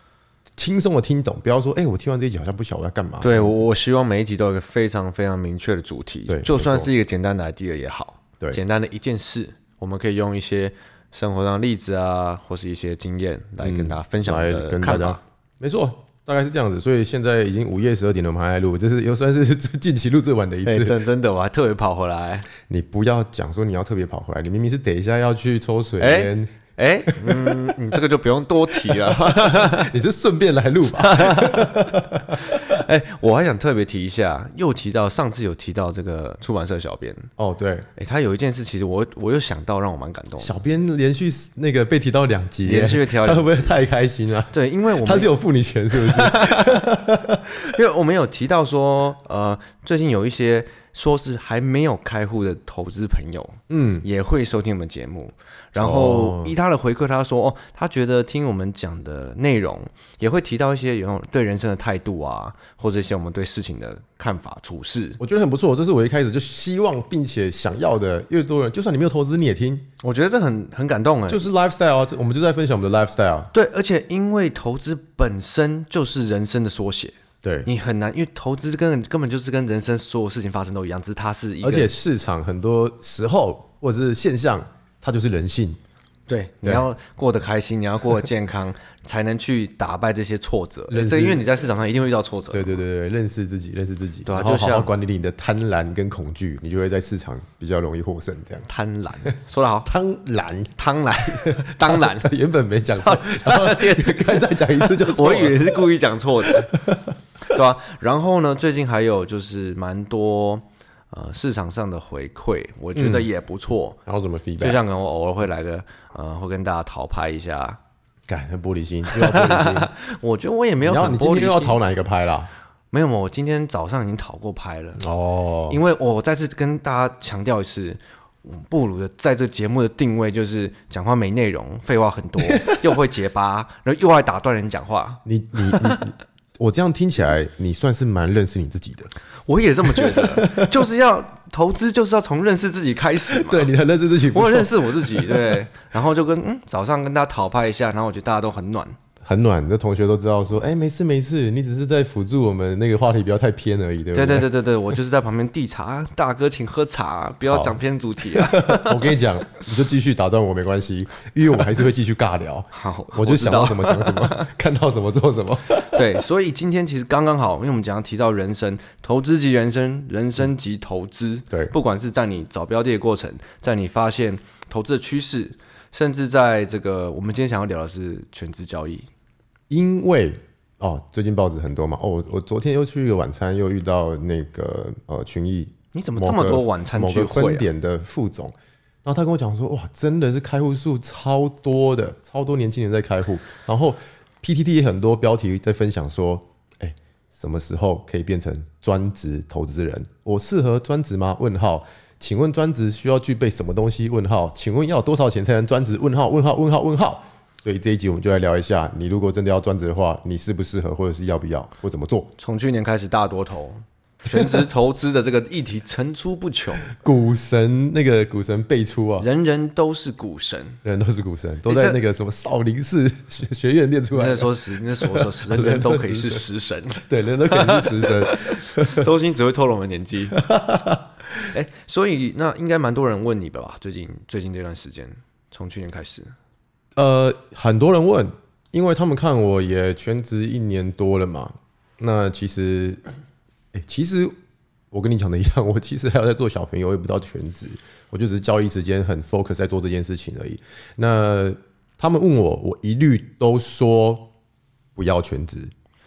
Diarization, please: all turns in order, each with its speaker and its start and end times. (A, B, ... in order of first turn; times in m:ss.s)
0:00.6-0:03.7 A
0:03.2-0:15.2 B
0:06.3-0:06.9 A
0:13.6-0:21.0 A
0:20.6-0:22.5 B
0:22.6-0:26.5 A
0:26.0-0:29.9 B
0:27.1-0:27.7 A
0:28.9-0:32.8 A
0:31.0-0:31.8 B
0:32.3-0:37.3 B
0:37.4-0:37.9 A
0:38.0-0:40.6 B
0:40.4-0:47.6 A
0:42.6-0:43.8 B
0:44.5-0:45.3 B
0:46.0-0:46.8 B
0:47.5-1:05.2 B
0:53.7-0:54.0 A
0:55.8-0:56.5 A
1:05.2-1:09.9 A
1:10.0-1:11.5 B
1:11.3-1:13.5 A
1:13.5-1:21.9 B
1:17.4-1:17.7 A
1:21.6-1:25.8 A
1:26.3-1:32.8 B
1:30.9-1:31.4 A
1:32.5-1:38.7 A
1:34.2-1:34.9 B
1:38.6-1:39.9 B
1:39.8-1:40.8 A
1:40.8-1:42.3 B
1:41.3-1:45.8 A
1:43.0-1:46.8 B
1:46.5-1:47.1 A
1:47.4-1:54.0 B
1:53.0-1:53.3 A
1:54.1-1:54.8 A
1:54.6-1:57.8 B
1:58.3-1:59.9 A
1:59.1-2:01.8 B
2:00.8-2:02.5 A
2:02.9-2:05.0 B
2:05.0-2:05.8 A
2:05.7-2:16.0 B
2:12.5-2:12.8 A
2:15.2-2:19.1 A
2:19.5-2:23.7 B
2:19.9-2:20.9 A
2:23.3-2:25.6 A
2:24.3-2:29.0 B
2:29.2-2:34.5 A
2:34.1-2:39.1 B
2:37.5-2:37.8 A
2:38.3-2:46.1 A
2:42.7-2:44.5 B
2:45.9-2:59.1 B
2:59.7-3:08.5 A
3:05.9-3:07.7 B
3:09.0-3:32.3 A
3:32.4-3:36.9 B
3:36.9-3:39.3 A
3:39.2-3:40.8 B
3:40.8-3:46.4 A
3:41.7-3:42.0 B
3:44.1-3:50.4 B
3:47.1-3:49.1 A
3:50.3-3:51.5 A
3:51.5-3:56.3 B
3:57.0-4:03.0 A
4:03.7-4:04.3 A
4:04.9-4:14.3 A
4:15.0-4:15.7 A